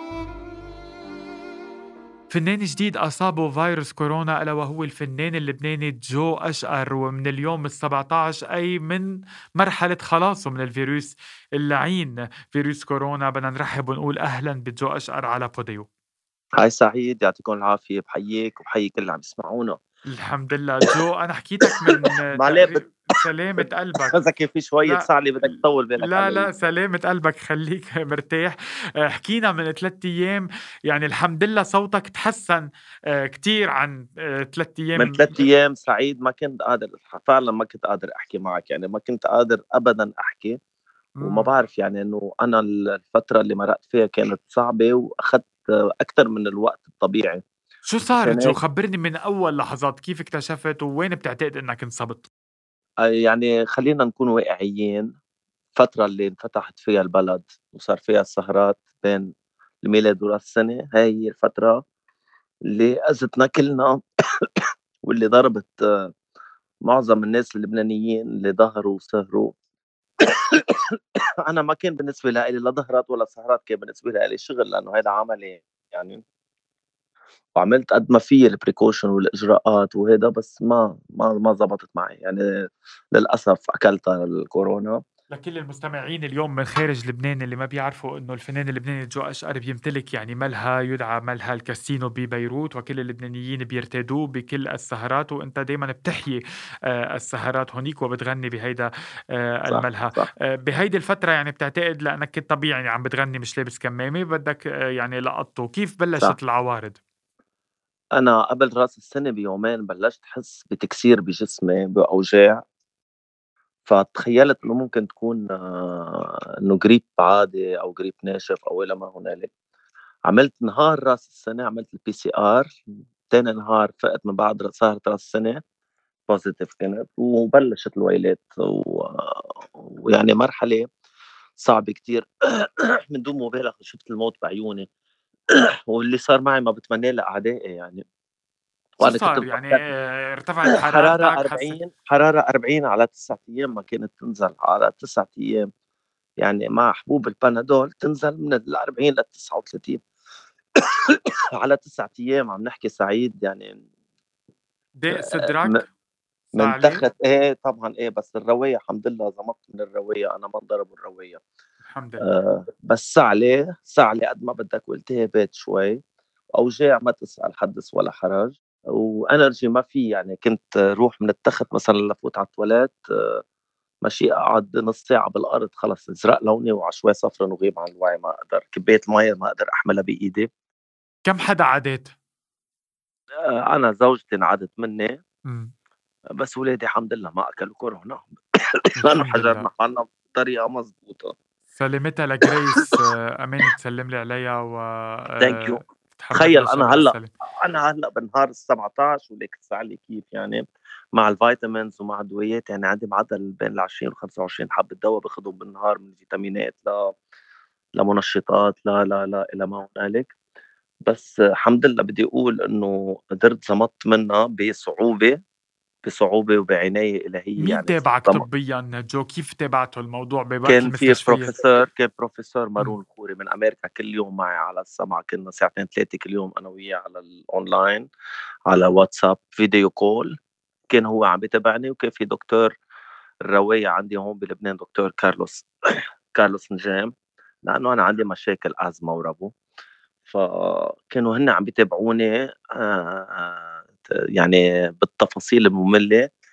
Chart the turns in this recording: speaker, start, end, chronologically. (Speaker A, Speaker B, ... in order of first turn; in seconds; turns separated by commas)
Speaker A: 2.3-15.9, Speaker B: 16.6-19.8, Speaker A: 20.1-24.2, Speaker B: 22.3-22.9, Speaker B: 23.6-26.5, Speaker A: 24.8-32.6, Speaker A: 33.2-35.4, Speaker B: 35.0-40.5, Speaker A: 41.2-41.5, Speaker B: 41.2-47.4, Speaker A: 47.9-52.3, Speaker B: 48.1-48.6, Speaker B: 53.0-55.1, Speaker B: 55.8-59.3, Speaker B: 59.8-61.8, Speaker B: 62.7-64.5, Speaker B: 65.0-66.0, Speaker B: 66.9-69.5, Speaker B: 70.2-76.2, Speaker B: 77.5-82.4, Speaker B: 83.1-85.0, Speaker A: 85.3-96.4, Speaker A: 96.9-107.0, Speaker B: 99.7-100.3, Speaker B: 108.2-112.6, Speaker B: 113.9-119.5, Speaker B: 120.3-122.7, Speaker B: 123.3-125.6, Speaker B: 126.3-130.8, Speaker B: 131.6-134.9, Speaker B: 135.9-138.0, Speaker B: 139.0-139.8, Speaker A: 139.0-141.8, Speaker B: 140.7-145.7, Speaker B: 146.4-150.0, Speaker B: 151.1-153.8, Speaker A: 155.0-155.9, Speaker B: 155.1-155.8, Speaker A: 156.5-157.0, Speaker B: 156.5-161.4, Speaker A: 161.8-162.2, Speaker B: 162.2-166.0, Speaker B: 166.5-173.4, Speaker B: 174.0-180.5, Speaker A: 181.2-182.1, Speaker B: 183.5-185.2, Speaker A: 185.5-185.7, Speaker B: 186.4-188.4, Speaker A: 188.9-189.7, Speaker B: 189.0-191.3, Speaker A: 191.8-197.3, Speaker B: 195.4-195.8, Speaker B: 196.3-200.6, Speaker B: 201.1-207.0, Speaker B: 208.0-210.3, Speaker B: 211.1-215.4, Speaker B: 216.0-218.4, Speaker A: 217.6-221.5, Speaker B: 220.7-228.1, Speaker B: 228.7-230.3, Speaker B: 230.9-232.7, Speaker B: 233.5-235.7, Speaker B: 236.3-237.1, Speaker B: 237.6-239.5, Speaker B: 240.2-246.2